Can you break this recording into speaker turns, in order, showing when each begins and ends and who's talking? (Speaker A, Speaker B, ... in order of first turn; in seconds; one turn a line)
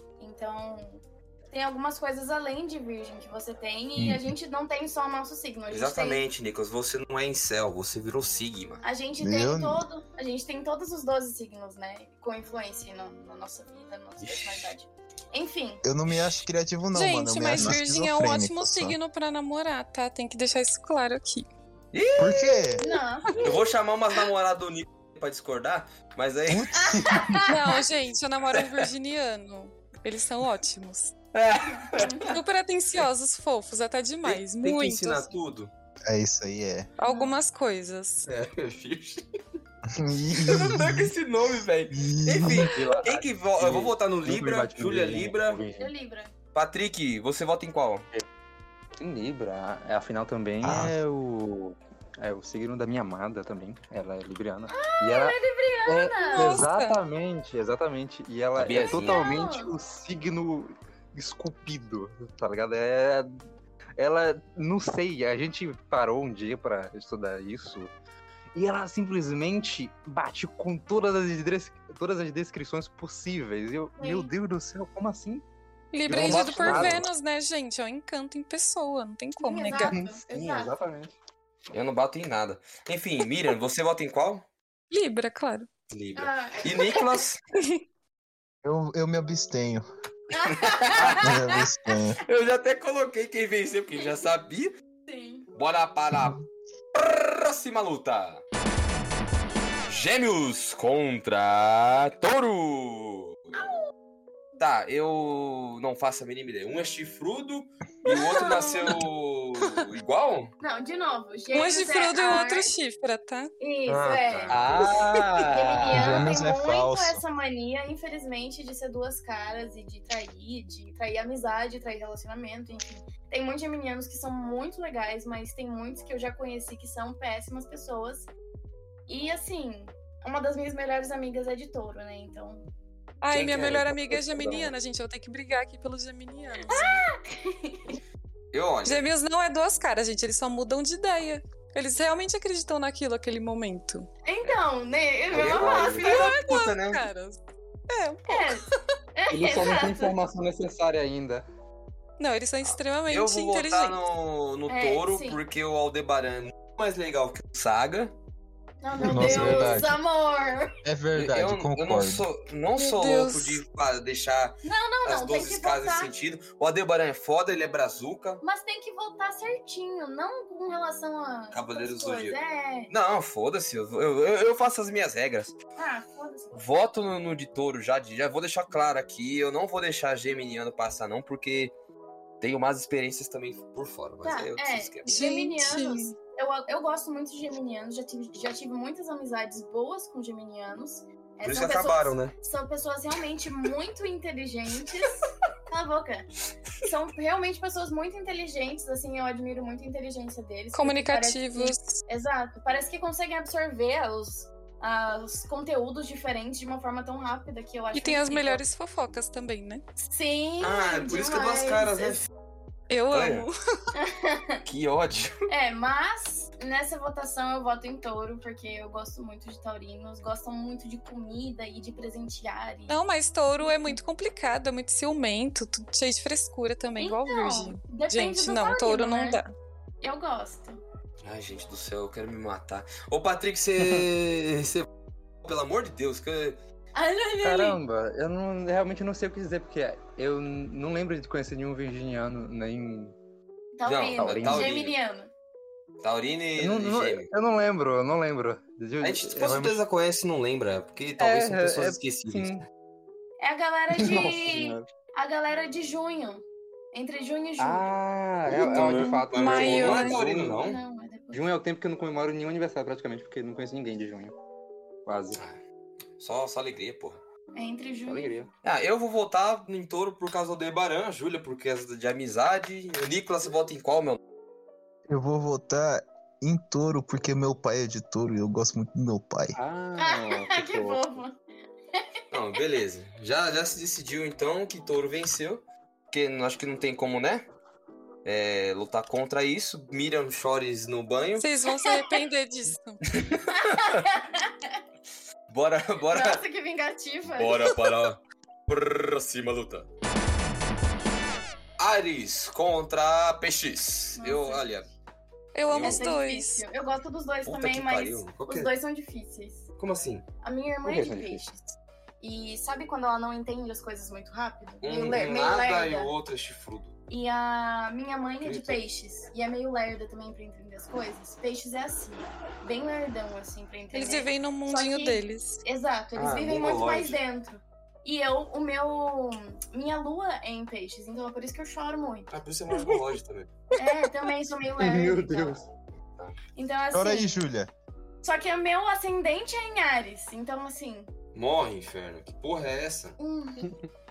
Speaker A: 0.2-6.3
Speaker B: 4.0-4.2
Speaker C: 5.7-8.8
Speaker A: 8.8-15.8
Speaker B: 9.2-9.8
Speaker C: 14.2-14.7
Speaker B: 15.8-19.0
Speaker C: 16.1-16.4
Speaker D: 16.9-21.5
Speaker C: 21.9-22.8
Speaker B: 22.2-22.8
Speaker A: 22.8-23.6
Speaker C: 23.4-27.0
Speaker B: 26.5-27.5
Speaker A: 26.8-27.4
Speaker D: 27.4-31.1
Speaker C: 28.6-28.9
Speaker C: 31.3-32.4
Speaker A: 31.7-32.3
Speaker D: 32.2-35.3
Speaker C: 34.2-35.7
Speaker B: 36.1-36.9
Speaker D: 37.0-38.2
Speaker A: 37.0-37.3
Speaker C: 38.2-39.2
Speaker B: 39.9-41.1
Speaker C: 40.4-45.6
Speaker B: 41.9-42.7
Speaker E: 42.4-45.9
Speaker A: 45.8-46.3
Speaker C: 46.5-48.1
Speaker E: 49.0-63.3
Speaker B: 50.6-51.0
Speaker A: 54.7-56.6
Speaker D: 56.3-57.0
Speaker C: 58.5-59.2
Speaker A: 59.0-59.7
Speaker E: 64.0-67.9
Speaker E: 68.5-75.4
Speaker A: 74.0-74.3
Speaker D: 75.9-79.9
Speaker E: 76.1-77.0
Speaker C: 76.1-77.0
Speaker A: 79.4-80.7
Speaker E: 79.9-81.1
Speaker C: 81.7-84.5
Speaker D: 84.9-85.7
Speaker C: 85.9-87.4
Speaker A: 86.2-87.0
Speaker B: 88.6-89.8
Speaker A: 90.3-91.6
Speaker C: 90.5-91.4
Speaker B: 91.0-92.2
Speaker C: 92.2-94.7
Speaker A: 95.1-95.5
Speaker C: 95.5-96.4
Speaker C: 96.9-98.4
Speaker C: 99.9-103.7
Speaker A: 103.5-103.9
Speaker C: 104.6-110.5
Speaker A: 108.0-109.0
Speaker A: 110.6-112.7
Speaker D: 111.5-113.5
Speaker A: 113.6-114.7
Speaker C: 113.9-115.4
Speaker E: 114.5-116.3
Speaker A: 115.4-128.3
Speaker B: 115.9-117.2
Speaker A: 129.1-132.6
Speaker D: 133.2-137.0
Speaker C: 133.3-134.7
Speaker A: 136.7-138.0
Speaker C: 138.5-139.1
Speaker D: 138.8-144.1
Speaker A: 144.2-146.3
Speaker E: 145.3-146.1
Speaker C: 145.3-147.1
Speaker D: 146.0-147.4
Speaker D: 147.9-148.5
Speaker A: 148.3-150.2
Speaker E: 149.3-151.4
Speaker D: 152.2-154.0
Speaker C: 152.6-158.1
Speaker A: 154.7-155.4
Speaker A: 158.8-160.7
Speaker B: 159.0-159.9
Speaker E: 159.1-159.8
Speaker C: 159.3-159.7
Speaker B: 160.8-162.3
Speaker C: 161.1-168.4
Speaker D: 162.8-163.6
Speaker A: 164.6-166.1
Speaker A: 168.4-172.9
Speaker C: 171.5-172.4
Speaker C: 172.9-175.6
Speaker A: 175.8-176.8
Speaker C: 176.5-181.7
Speaker C: 182.4-185.1
Speaker A: 184.2-196.3
Speaker D: 185.1-186.1
Speaker C: 191.4-192.3
Speaker A: 196.8-208.6
Speaker D: 200.7-202.0
Speaker D: 207.9-209.8
Speaker A: 210.0-212.2
Speaker C: 210.6-212.3
Speaker D: 212.9-213.5
Speaker C: 213.1-213.5
Speaker A: 213.9-214.6
Speaker C: 214.6-215.5
Speaker A: 215.5-223.0
Speaker D: 222.9-229.5
Speaker A: 223.7-223.9
Speaker A: 227.0-229.4
Speaker A: 230.0-230.8
Speaker C: 231.2-234.9
Speaker E: 233.8-234.0
Speaker C: 235.4-236.6
Speaker A: 236.9-237.8
Speaker E: 237.4-243.1
Speaker A: 243.7-245.3
Speaker C: 243.9-244.9
Speaker E: 244.2-244.8
Speaker C: 246.0-247.3
Speaker E: 246.6-249.8
Speaker C: 249.0-252.5
Speaker E: 251.2-252.7
Speaker A: 253.4-257.9
Speaker E: 253.9-254.9
Speaker E: 257.6-260.6
Speaker C: 258.5-260.8
Speaker D: 258.7-260.2
Speaker A: 259.7-261.5
Speaker E: 261.3-264.3
Speaker E: 265.1-265.4
Speaker C: 266.2-267.2
Speaker A: 267.5-268.4
Speaker E: 268.1-268.5
Speaker C: 268.6-274.2
Speaker B: 275.1-279.6
Speaker E: 279.5-281.2
Speaker A: 279.9-281.4
Speaker C: 282.3-287.5
Speaker C: 288.2-291.5
Speaker D: 291.4-293.0
Speaker A: 291.8-292.2
Speaker C: 293.1-294.1
Speaker A: 293.5-294.8
Speaker C: 295.5-296.4
Speaker A: 296.1-297.8
Speaker C: 297.4-299.9
Speaker C: 301.8-304.9
Speaker A: 304.1-304.7
Speaker D: 305.5-306.6
Speaker C: 305.7-306.1
Speaker A: 305.8-309.7
Speaker C: 307.4-308.7
Speaker C: 309.8-310.2
Speaker A: 310.4-316.1
Speaker E: 310.8-311.4
Speaker C: 314.8-316.9
Speaker A: 317.1-332.3
Speaker C: 318.4-318.8
Speaker D: 323.9-325.6
Speaker C: 326.1-327.2
Speaker C: 332.3-333.5
Speaker A: 333.8-335.6
Speaker E: 334.8-335.6
Speaker A: 336.6-337.4
Speaker B: 336.9-337.7
Speaker A: 338.2-341.1
Speaker C: 341.3-343.1
Speaker A: 343.2-343.7